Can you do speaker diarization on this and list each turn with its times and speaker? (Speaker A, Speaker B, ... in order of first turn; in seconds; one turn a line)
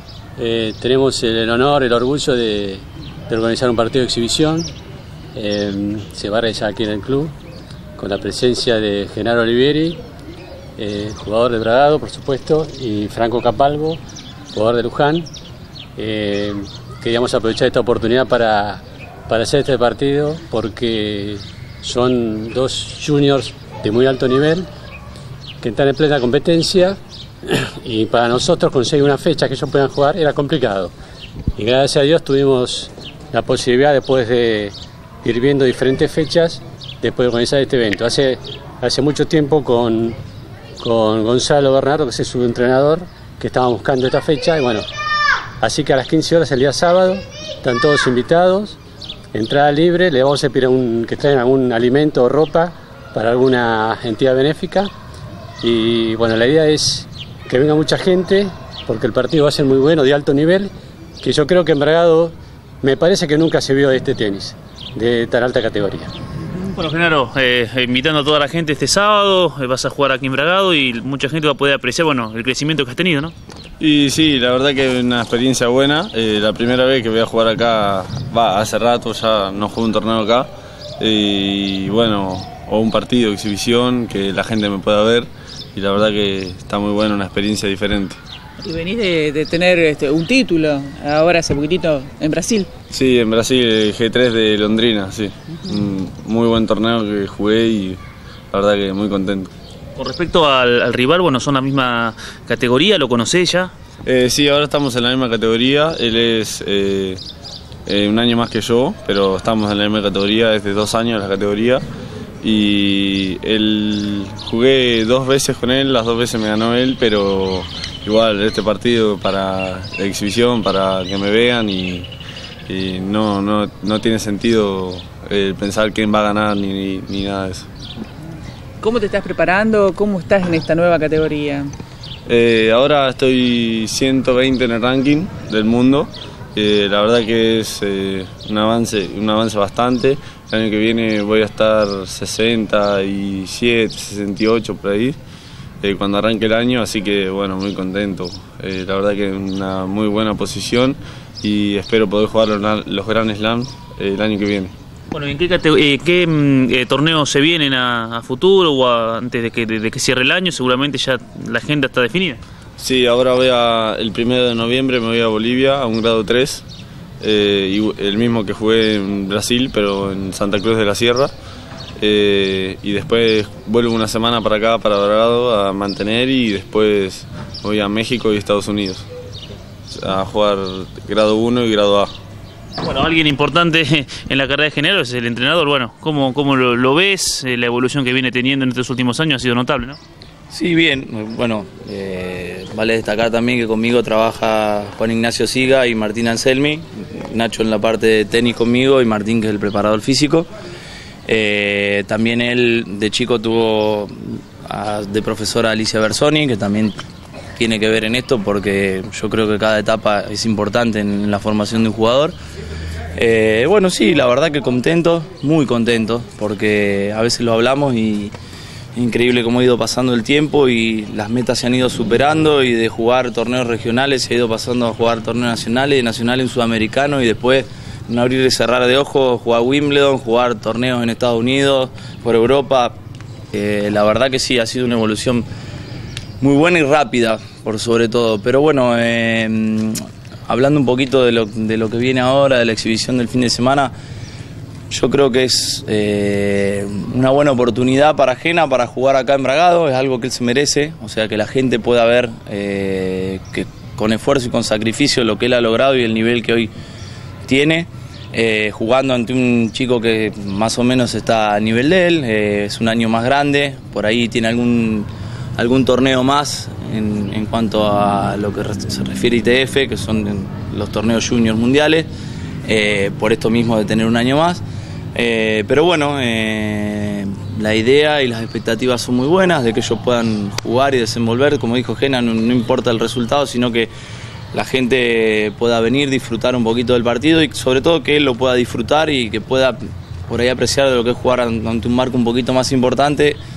Speaker A: 0.4-4.7
Speaker A: 5.3-7.3
Speaker A: 8.0-10.0
Speaker A: 10.8-14.0
Speaker A: 14.5-15.3
Speaker A: 15.9-24.7
Speaker A: 25.6-30.9
Speaker A: 31.6-40.2
Speaker A: 40.8-44.9
Speaker A: 45.6-48.8
Speaker A: 49.3-54.9
Speaker A: 55.6-60.7
Speaker A: 61.2-66.1
Speaker B: 66.6-73.3
Speaker C: 73.8-88.2
Speaker D: 88.6-92.7
Speaker C: 92.9-98.0
Speaker C: 98.5-99.5
Speaker B: 100.0-103.7
Speaker C: 104.0-107.2
Speaker C: 107.8-111.8
Speaker C: 112.4-122.1
Speaker C: 122.7-127.7
Speaker D: 128.8-131.7
Speaker C: 132.3-145.2
Speaker C: 145.8-154.7
Speaker B: 155.1-162.4
Speaker C: 162.8-166.6
Speaker C: 167.2-171.3
Speaker C: 172.0-179.1
Speaker C: 179.9-182.1
Speaker B: 182.8-190.0
Speaker E: 190.5-200.5
Speaker E: 201.2-207.0
Speaker E: 207.6-212.3
Speaker E: 213.2-218.3
Speaker E: 218.9-232.9
Speaker E: 233.5-235.4
Speaker E: 236.4-240.0
Speaker E: 240.5-243.9
Speaker E: 244.9-256.7
Speaker E: 257.4-272.1
Speaker E: 272.6-274.6
Speaker E: 275.1-283.9
Speaker E: 284.5-293.4